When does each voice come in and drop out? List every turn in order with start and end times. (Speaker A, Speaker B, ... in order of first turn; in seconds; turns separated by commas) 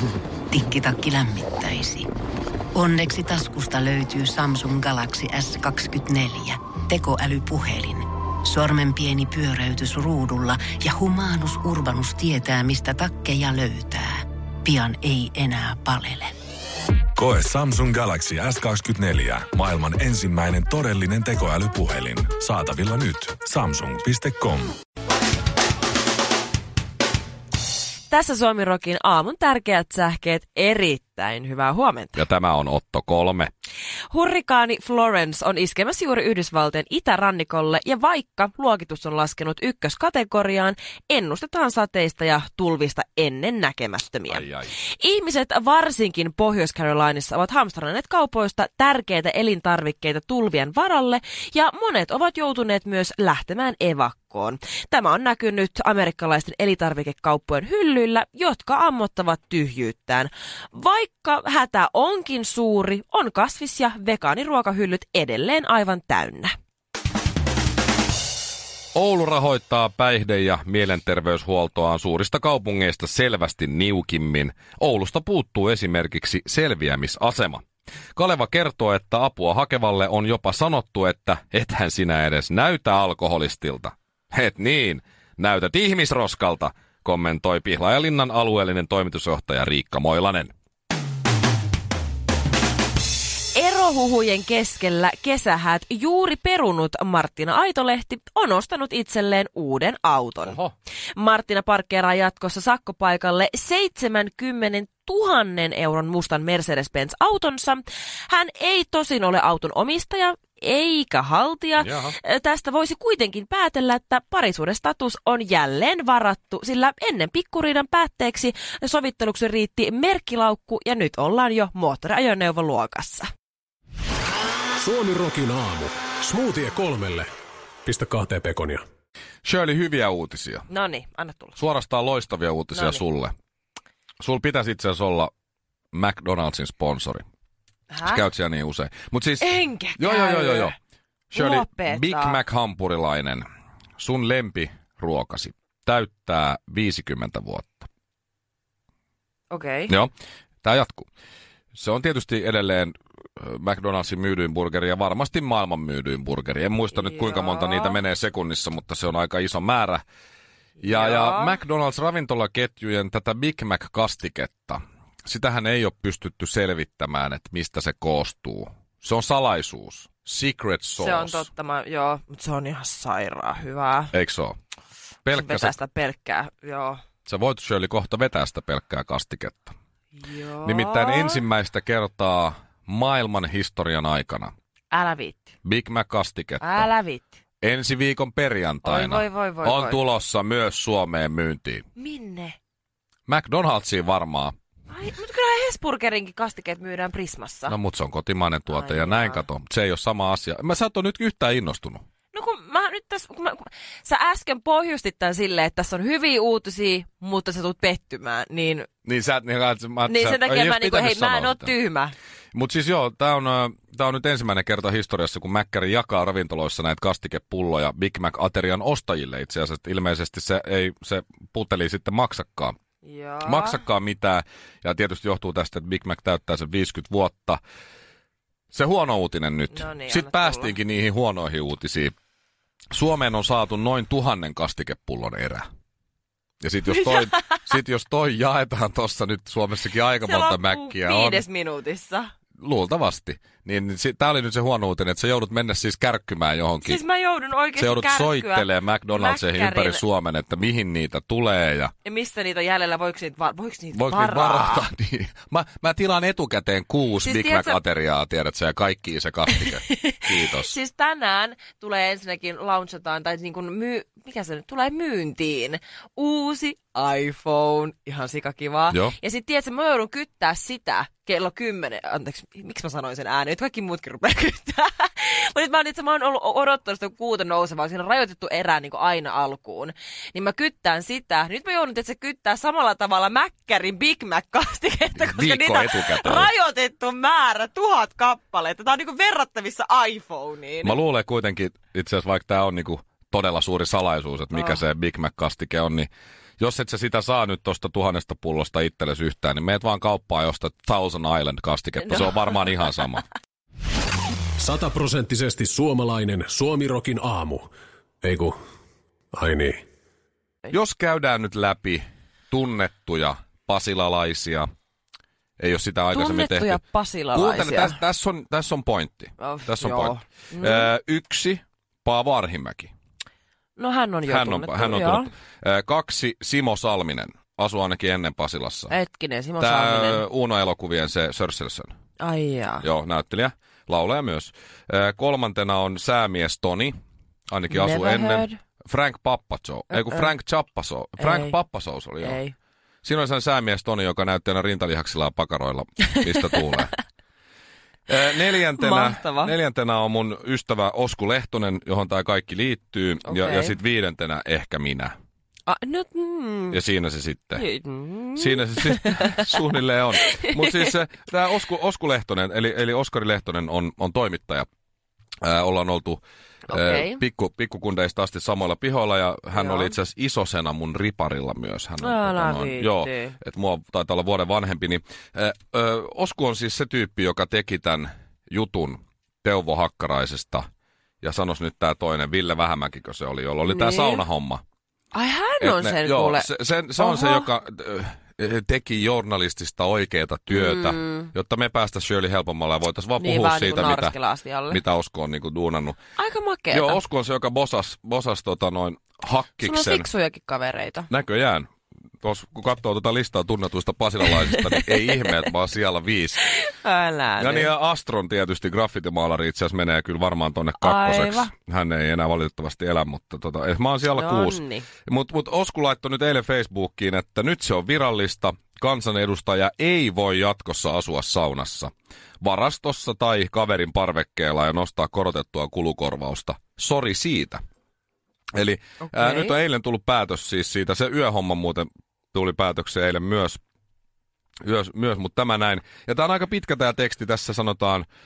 Speaker A: 0.5-2.1, Speaker A: 2.8-16.3, Speaker B: 17.2-24.7, Speaker C: 28.1-32.2, Speaker D: 32.2-33.5, Speaker C: 34.1-44.4, Speaker D: 44.3-44.7, Speaker C: 45.0-66.5, Speaker D: 69.0-77.6, Speaker D: 78.2-90.5, Speaker C: 93.5-100.6, Speaker D: 100.5-100.7, Speaker C: 101.2-123.3, Speaker D: 111.8-112.2, Speaker E: 124.8-127.3, Speaker E: 127.8-128.8, Speaker D: 129.4-130.7, Speaker C: 130.7-131.6, Speaker D: 131.6-133.3, Speaker C: 132.7-133.0, Speaker D: 134.2-135.3, Speaker D: 135.9-137.2, Speaker C: 137.9-138.2, Speaker D: 138.1-140.7, Speaker C: 139.4-140.8, Speaker D: 141.3-143.4, Speaker C: 141.3-142.4, Speaker D: 144.0-147.9, Speaker C: 149.5-149.9, Speaker D: 150.6-151.1, Speaker D: 151.7-160.0, Speaker C: 156.9-158.0, Speaker C: 160.8-161.6, Speaker D: 160.8-171.5, Speaker C: 171.0-174.1, Speaker D: 174.1-174.6, Speaker D: 175.2-175.7, Speaker C: 175.3-177.0, Speaker D: 177.3-179.7, Speaker C: 180.2-181.4, Speaker D: 180.6-184.5, Speaker C: 184.9-185.5, Speaker D: 185.6-186.9, Speaker C: 186.6-187.3, Speaker D: 187.6-191.8, Speaker C: 188.8-190.0, Speaker C: 192.0-192.6, Speaker D: 193.3-194.5, Speaker C: 194.9-197.8, Speaker D: 197.7-202.0, Speaker C: 198.7-199.4, Speaker C: 202.3-208.9, Speaker D: 209.1-211.7, Speaker C: 210.1-212.1, Speaker D: 212.5-222.8, Speaker C: 223.0-223.8, Speaker D: 223.4-227.6, Speaker D: 228.7-232.1, Speaker C: 229.7-230.7, Speaker D: 232.9-235.7, Speaker D: 236.6-241.4, Speaker C: 240.2-242.3, Speaker D: 242.6-247.0, Speaker C: 246.8-250.0, Speaker D: 247.8-251.9, Speaker C: 252.1-254.8, Speaker D: 253.9-260.7, Speaker C: 257.2-257.8, Speaker C: 259.5-290.9, Speaker D: 285.1-286.5, Speaker D: 290.8-303.2, Speaker C: 294.6-294.8, Speaker E: 304.6-307.7, Speaker E: 308.2-308.6, Speaker E: 309.3-309.8, Speaker D: 310.7-314.7, Speaker D: 315.6-316.8, Speaker C: 316.1-318.0, Speaker D: 317.3-322.9, Speaker C: 319.4-320.9, Speaker C: 323.8-325.3, Speaker D: 324.3-328.9, Speaker C: 328.9-330.2, Speaker D: 329.6-331.9, Speaker C: 332.2-332.8, Speaker D: 332.8-336.9, Speaker D: 337.5-342.4, Speaker C: 337.7-338.6, Speaker C: 339.9-340.3, Speaker C: 341.2-341.6, Speaker C: 342.2-342.5, Speaker D: 343.0-347.0, Speaker D: 348.1-355.1, Speaker C: 348.8-349.5, Speaker C: 353.2-353.8, Speaker C: 355.7-356.8, Speaker D: 356.7-357.6, Speaker C: 357.6-359.5, Speaker D: 358.4-364.7, Speaker C: 360.2-360.9, Speaker D: 365.4-380.7, Speaker C: 366.7-367.2, Speaker C: 369.6-369.9, Speaker C: 372.0-373.4, Speaker D: 381.2-384.6, Speaker C: 383.7-384.2, Speaker C: 385.1-387.5, Speaker D: 385.6-394.1, Speaker C: 390.5-391.3, Speaker C: 393.2-394.8, Speaker D: 394.7-396.0, Speaker C: 396.2-397.0, Speaker D: 396.7-400.1, Speaker C: 399.6-401.1, Speaker D: 401.1-401.7, Speaker D: 402.2-406.4, Speaker C: 404.3-405.3, Speaker C: 406.5-407.7, Speaker D: 407.4-427.6, Speaker C: 410.8-411.5, Speaker C: 414.1-414.9, Speaker D: 428.6-433.6, Speaker C: 429.1-429.6, Speaker D: 434.6-438.1